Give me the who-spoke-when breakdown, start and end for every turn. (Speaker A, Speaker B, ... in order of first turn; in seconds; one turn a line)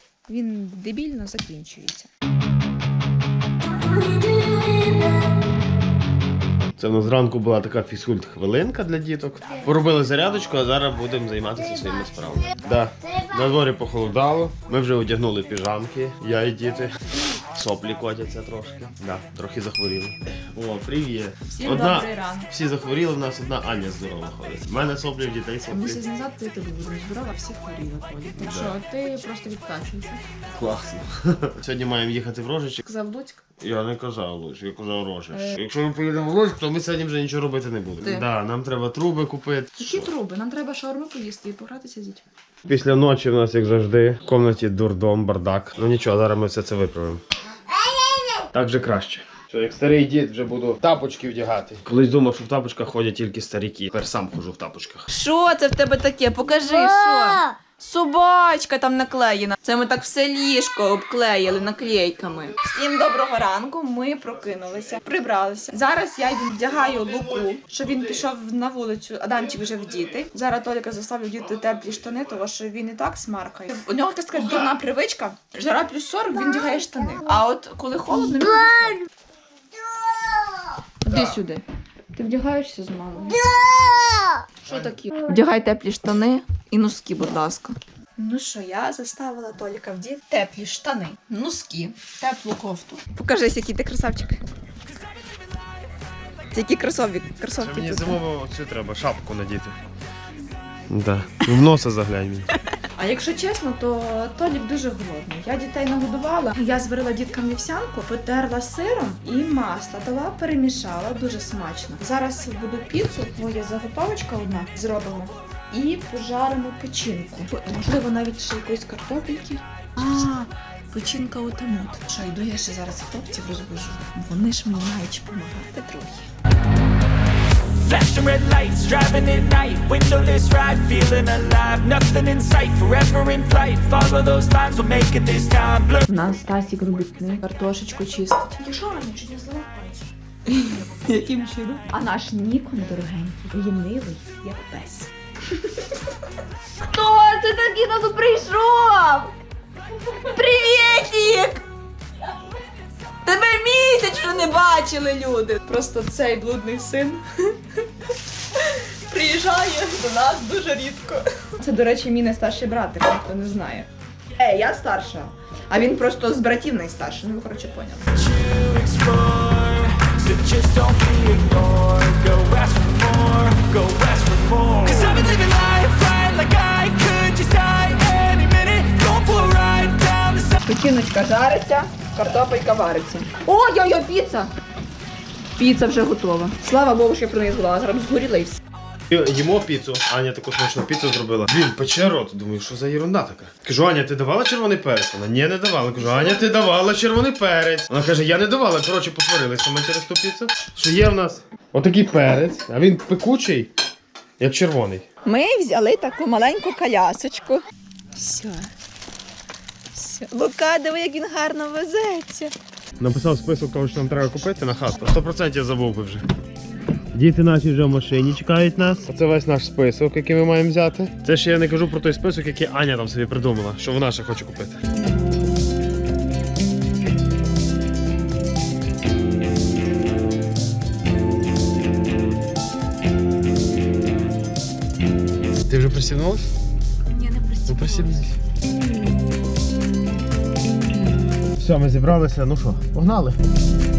Speaker A: 0.3-2.1
Speaker B: 6.8-26.0
Speaker A: 21.5-22.5
Speaker A: 25.7-30.2
Speaker B: 28.4-28.8
Speaker B: 30.5-32.8
Speaker A: 32.8-33.4
Speaker B: 33.6-40.1
Speaker A: 35.3-35.6
Speaker A: 38.0-38.3
Speaker A: 39.8-42.2
Speaker B: 42.7-47.2
Speaker B: 48.5-55.1
Speaker A: 55.1-79.0
Speaker A: 81.0-94.4
Speaker A: 96.5-98.2
Speaker B: 97.6-99.8
Speaker B: 100.9-102.5
Speaker A: 102.8-126.3
Speaker C: 127.8-136.1
Speaker A: 136.1-146.0
Speaker A: 146.8-149.3
Speaker A: 150.0-151.6
Speaker A: 153.2-168.2
Speaker C: 168.2-180.6
Speaker A: 174.8-175.8
Speaker A: 180.6-184.5
Speaker A: 185.6-188.6
Speaker B: 189.1-203.7
Speaker A: 196.0-196.5
Speaker B: 204.4-205.0
Speaker A: 205.2-207.6
Speaker A: 208.1-208.7
Speaker A: 209.9-212.5
Speaker B: 213.0-216.3
Speaker B: 217.1-224.8
Speaker B: 235.7-236.5
Speaker A: 237.1-238.3
Speaker B: 237.7-238.4
Speaker B: 241.6-243.4